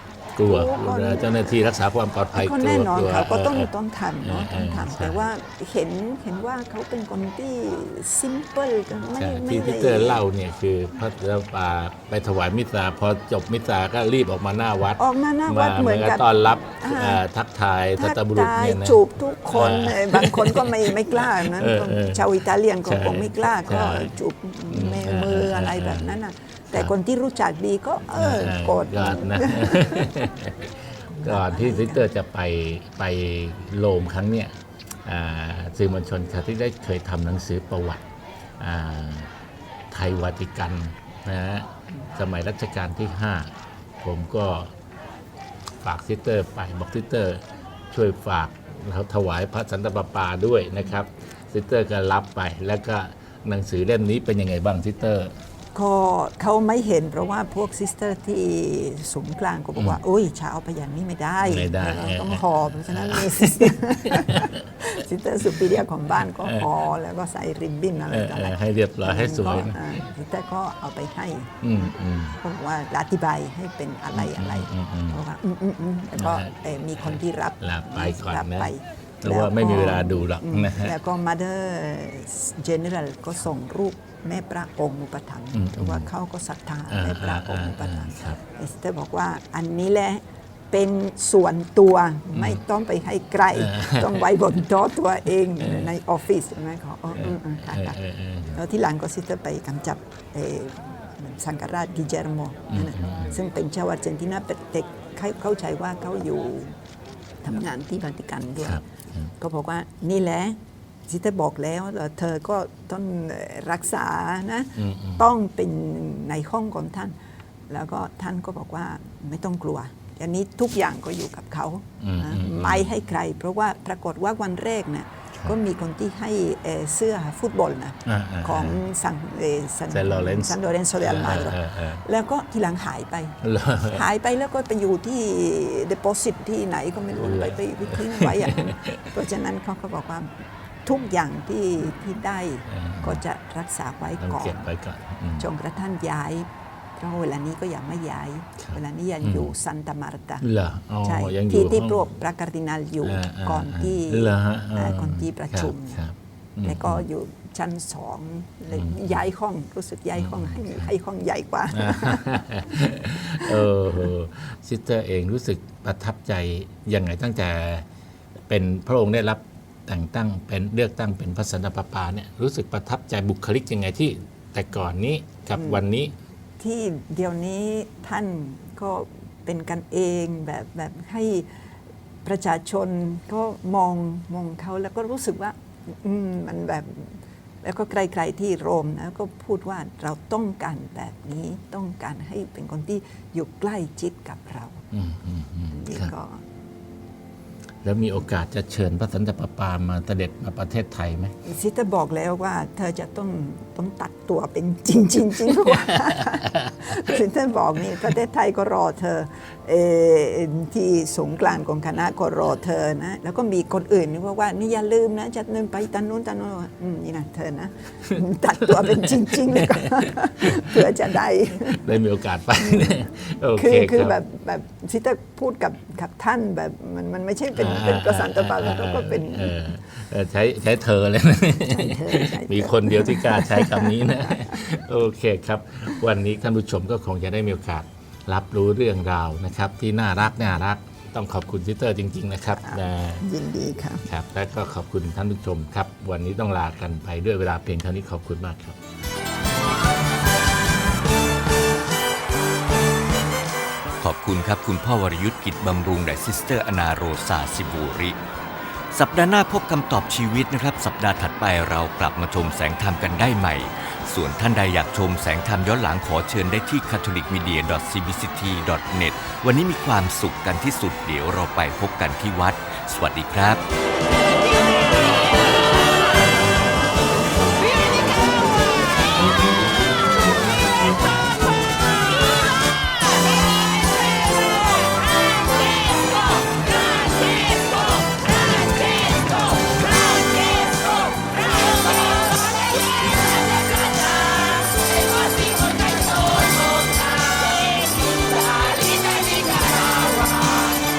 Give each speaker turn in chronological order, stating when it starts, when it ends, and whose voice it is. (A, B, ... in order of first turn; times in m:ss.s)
0:00.4-0:05.2 A
0:00.4-0:01.6 B
0:02.3-0:10.2 B
0:09.2-0:24.1 A
0:15.0-0:17.2 B
0:18.0-0:30.3 B
0:24.7-0:26.2 A
0:28.1-0:38.0 A
0:31.1-0:32.0 B
0:38.6-0:39.3 A
0:39.9-0:44.7 A
0:45.8-0:55.3 A
0:55.7-1:38.0 B
1:01.4-1:04.7 A
1:05.5-1:05.8 A
1:06.4-1:06.7 A
1:08.1-1:10.0 A
1:11.6-1:12.4 A
1:14.1-1:15.2 A
1:16.2-1:21.0 A
1:25.5-1:26.1 A
1:26.9-1:28.4 A
1:32.3-1:32.6 A
1:33.5-1:34.3 A
1:35.6-1:35.9 A
1:37.1-1:38.6 A
1:38.5-1:46.8 B
1:42.7-1:43.4 A
1:47.4-1:48.8 B
1:48.6-1:49.3 A
1:49.4-1:57.2 B
1:54.8-1:55.2 A
1:57.7-2:24.7 B
2:02.0-2:02.9 A
2:08.0-2:08.8 A
2:09.9-2:12.0 A
2:13.4-2:14.0 A
2:17.2-2:19.1 A
2:22.7-2:23.2 A
2:24.2-2:25.5 A
2:25.4-2:30.5 B
2:28.6-2:29.5 A
2:30.4-2:32.1 A
2:31.0-2:36.0 B
2:33.0-2:37.0 A
2:36.6-2:43.7 B
2:38.7-2:39.1 A
2:40.2-2:40.9 A
2:41.7-2:47.9 A
2:48.5-2:56.1 A
2:56.6-3:01.7 B
3:02.2-3:14.8 B
3:14.9-3:16.1 A
3:15.7-3:16.4 B
3:17.8-3:21.3 A
3:21.4-3:42.0 B
3:38.7-3:40.9 A
3:41.6-3:44.2 A
3:42.6-3:49.7 B
3:47.5-4:03.3 A
3:51.7-3:54.6 B
4:02.6-4:04.0 B
4:04.0-4:08.8 A
4:14.0-4:18.2 C
4:18.9-4:33.6 C
4:48.6-4:49.3 B
4:53.6-4:54.7 B
4:55.7-4:57.8 B
4:59.0-5:00.2 B